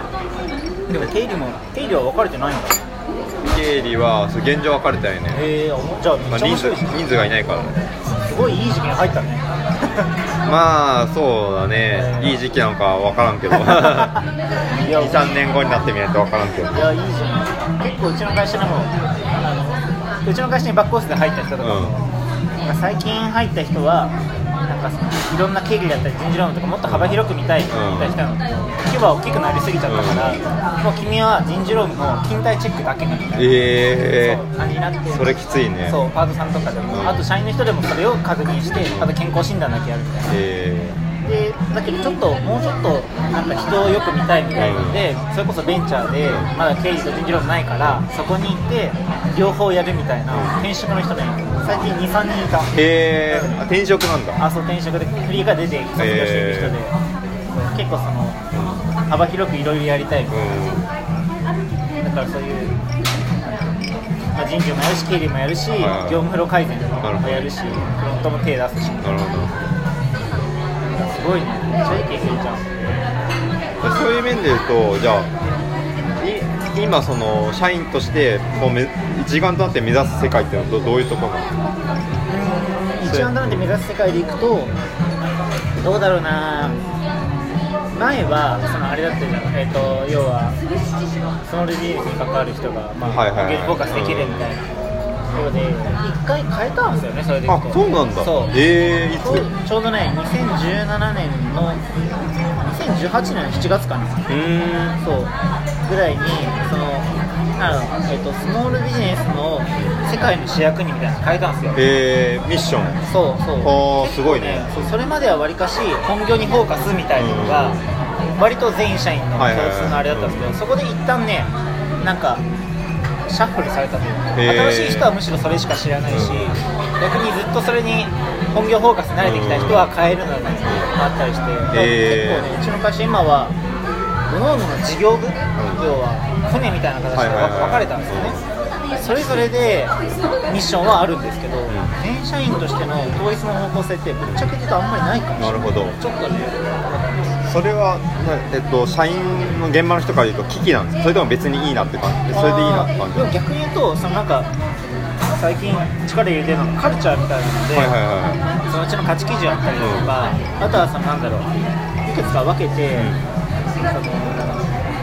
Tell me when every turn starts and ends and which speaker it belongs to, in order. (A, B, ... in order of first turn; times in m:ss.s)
0:00.9-0:02.8 A
0:03.4-0:05.4 B
0:05.3-0:07.0 A
0:06.3-0:07.8 B
0:08.3-0:09.4 A
0:10.4-0:14.2 B
0:11.9-0:12.4 A
0:13.5-0:15.3 A
0:14.9-0:16.8 B
0:16.7-0:22.1 A
0:21.6-0:22.0 B
0:22.6-0:24.2 A
0:24.7-0:35.3 A
0:26.9-0:28.2 B
0:29.9-0:30.4 B
0:33.4-0:34.4 B
0:35.1-0:36.0 B
0:35.9-0:40.4 A
0:36.9-0:37.3 B
0:38.9-0:39.1 B
0:40.3-0:41.0 B
0:41.2-0:52.7 A
0:44.6-0:45.1 B
0:46.2-0:46.5 B
0:50.3-0:50.6 B
0:52.7-0:54.4 B
0:53.3-0:53.6 A
0:54.4-0:57.0 A
0:56.0-0:56.8 B
0:57.5-0:58.4 A
0:58.5-0:58.8 B
0:59.0-1:00.4 A
1:00.3-1:00.9 B
1:02.0-1:02.8 A
1:03.4-1:03.7 A
1:04.4-1:09.1 A
1:05.8-1:06.3 B
1:07.0-1:07.9 B
1:09.0-1:09.7 B
1:10.9-1:12.7 A
1:13.8-1:15.3 B
1:16.2-1:21.5 B
1:22.3-1:24.8 A
1:23.0-1:23.7 B
1:25.8-1:26.8 A
1:27.9-1:30.6 A
1:31.4-1:34.7 A
1:33.1-1:34.6 B
1:35.3-1:38.6 A
1:37.5-1:39.5 B
1:39.2-1:41.8 A
1:42.6-1:44.3 A
1:44.3-1:45.0 B
1:45.0-1:45.3 A
1:45.8-1:51.8 A
1:51.8-1:53.0 B
1:53.0-1:57.8 A
1:53.6-1:54.9 B
1:57.2-1:57.9 B
1:58.4-2:02.4 A
1:59.4-2:00.6 B
2:03.3-2:13.6 A
2:04.4-2:05.1 B
2:06.1-2:06.6 B
2:09.2-2:09.9 B
2:10.6-2:10.9 B
2:11.7-2:12.5 B
2:14.3-2:20.0 A
2:15.6-2:15.9 B
2:17.1-2:18.4 B
2:20.5-2:27.2 A
2:21.7-2:22.0 B
2:25.4-2:26.0 B
2:27.4-2:33.3 B
2:32.3-2:34.5 A
2:35.2-2:38.0 A
2:37.7-2:38.4 B
2:38.6-2:41.5 A
2:39.8-2:40.1 B
2:42.0-2:43.1 A
2:42.9-2:43.2 B
2:43.9-2:44.7 A